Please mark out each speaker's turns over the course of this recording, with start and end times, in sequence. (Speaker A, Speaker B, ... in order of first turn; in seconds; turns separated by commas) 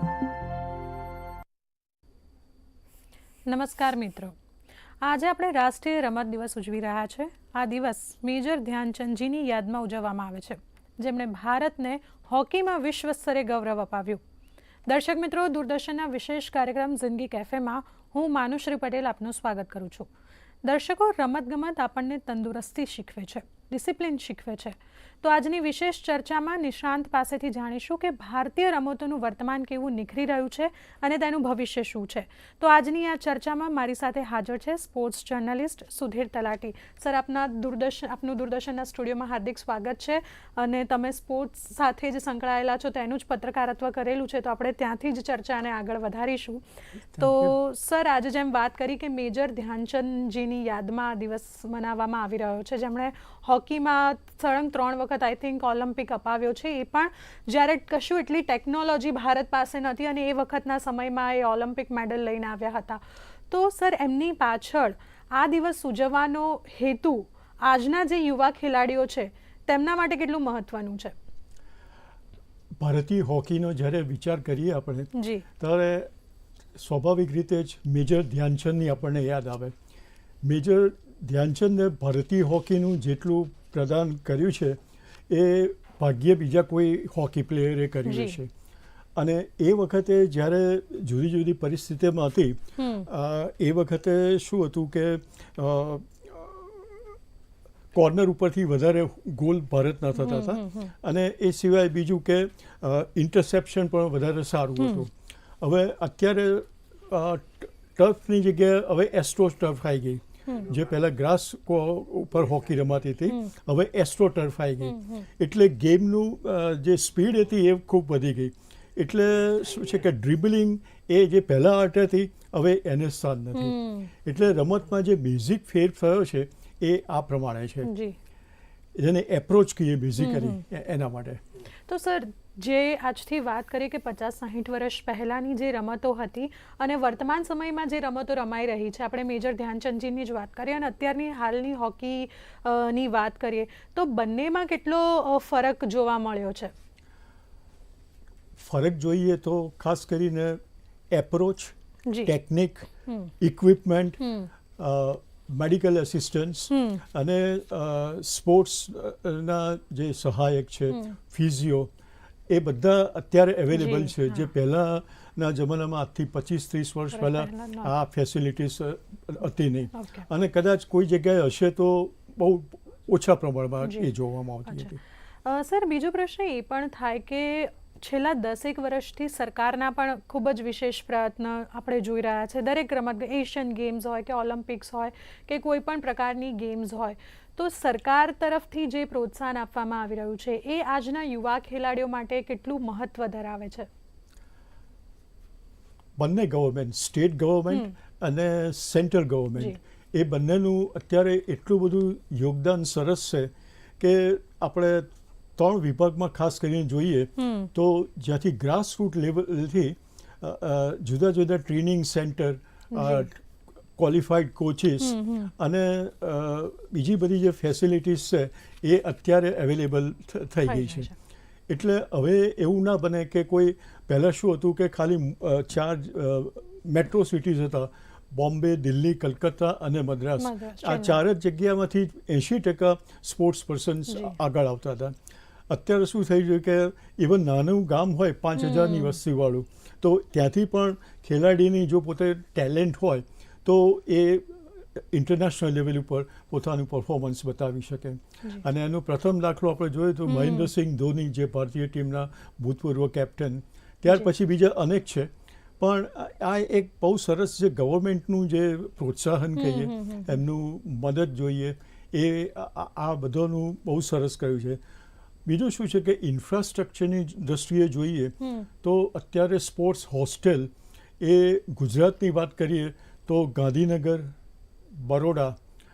Speaker A: 3.5-4.3, Speaker A: 5.0-14.2, Speaker A: 14.9-20.1, Speaker A: 20.6-46.6, Speaker B: 47.1-47.5, Speaker A: 47.2-71.1, Speaker B: 72.8-76.1, Speaker A: 75.2-75.4, Speaker B: 76.8-79.7, Speaker B: 80.4-88.5, Speaker A: 88.1-88.4, Speaker B: 89.2-97.1, Speaker A: 92.8-93.1, Speaker B: 97.9-127.9, Speaker A: 100.2-100.9, Speaker A: 104.8-105.0, Speaker A: 114.8-115.3, Speaker A: 123.5-124.1, Speaker A: 127.8-128.2, Speaker B: 129.0-131.4, Speaker A: 130.2-130.6, Speaker A: 131.9-146.7, Speaker B: 148.6-150.6, Speaker B: 151.1-152.9, Speaker A: 152.1-152.3, Speaker A: 153.1-153.3, Speaker B: 153.4-154.2, Speaker A: 154.2-154.5, Speaker B: 154.8-161.9, Speaker A: 156.7-157.0, Speaker A: 160.9-161.2, Speaker B: 162.5-175.0, Speaker A: 163.7-164.4, Speaker A: 167.1-167.9, Speaker A: 170.0-170.2, Speaker A: 175.4-193.9, Speaker B: 196.2-213.4, Speaker A: 207.4-207.7, Speaker A: 212.9-213.3, Speaker B: 213.9-221.1, Speaker A: 215.0-215.5, Speaker A: 220.7-221.1, Speaker B: 221.7-235.1, Speaker A: 230.4-231.2, Speaker A: 234.1-234.4, Speaker B: 235.7-264.8, Speaker A: 238.6-239.2, Speaker A: 250.3-250.7, Speaker A: 259.6-260.4, Speaker B: 265.4-274.3, Speaker A: 268.4-268.7, Speaker B: 274.9-275.6